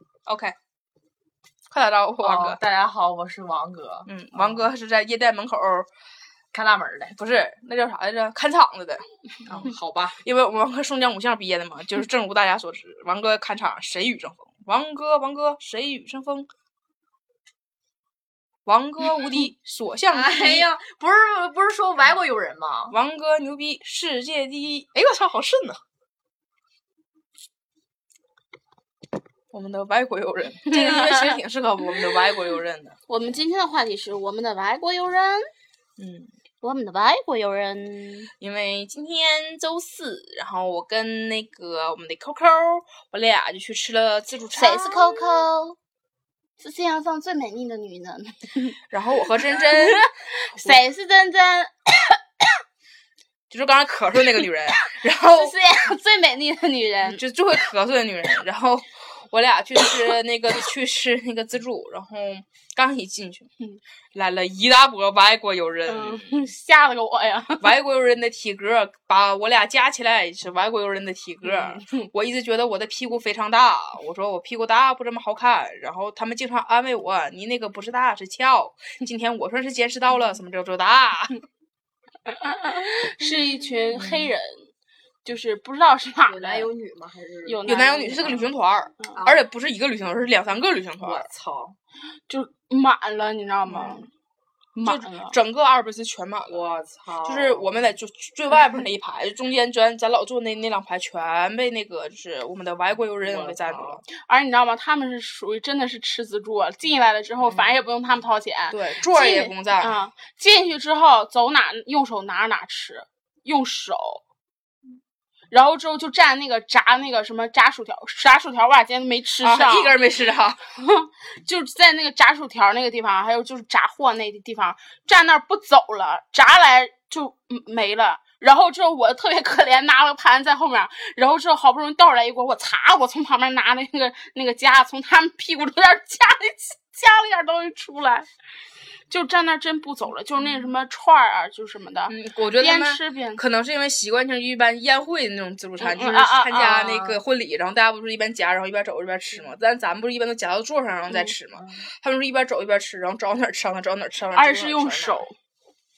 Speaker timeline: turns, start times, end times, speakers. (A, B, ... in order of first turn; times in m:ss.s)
0:00.3-0:00.6 A
0:01.7-0:02.6 A
0:02.2-0:04.7 B
0:04.1-0:05.9 A
0:06.5-0:07.2 B
0:07.2-0:16.5 A
0:09.5-0:10.2 B
0:18.7-0:20.7 A
0:20.1-0:23.0 B
0:22.9-0:25.8 A
0:29.5-0:33.0 A
0:30.6-0:31.4 C
0:33.1-0:35.5 C
0:36.0-0:36.3 A
0:36.6-0:38.3 C
0:38.4-0:45.4 A
0:44.5-0:45.8 C
0:46.6-0:52.5 C
0:48.9-0:50.0 A
0:53.5-0:55.5 A
0:55.2-0:57.2 C
0:57.0-1:03.5 A
1:04.1-1:06.3 A
1:05.9-1:07.8 C
1:07.6-1:21.4 A
1:11.4-1:12.1 C
1:22.3-1:24.7 C
1:23.9-1:24.3 B
1:25.2-1:26.7 C
1:26.3-1:27.6 B
1:27.4-1:29.2 C
1:27.7-1:31.3 A
1:29.2-1:29.4 B
1:31.0-1:31.8 B
1:32.3-1:34.1 C
1:33.7-1:34.1 A
1:34.8-1:35.4 C
1:34.8-1:36.6 A
1:36.5-1:37.9 B
1:37.2-1:44.0 A
1:43.2-1:44.0 B
1:44.2-1:54.2 C
1:48.7-1:50.0 A
1:55.5-2:00.0 C
1:59.4-2:00.6 A
2:00.8-2:18.3 C
2:19.1-2:23.4 C
2:22.1-2:34.9 A
2:25.8-2:26.9 C
2:26.7-2:27.2 B
2:31.1-2:31.4 C
2:31.5-2:31.9 B
2:34.3-2:35.4 C
2:34.8-2:35.3 B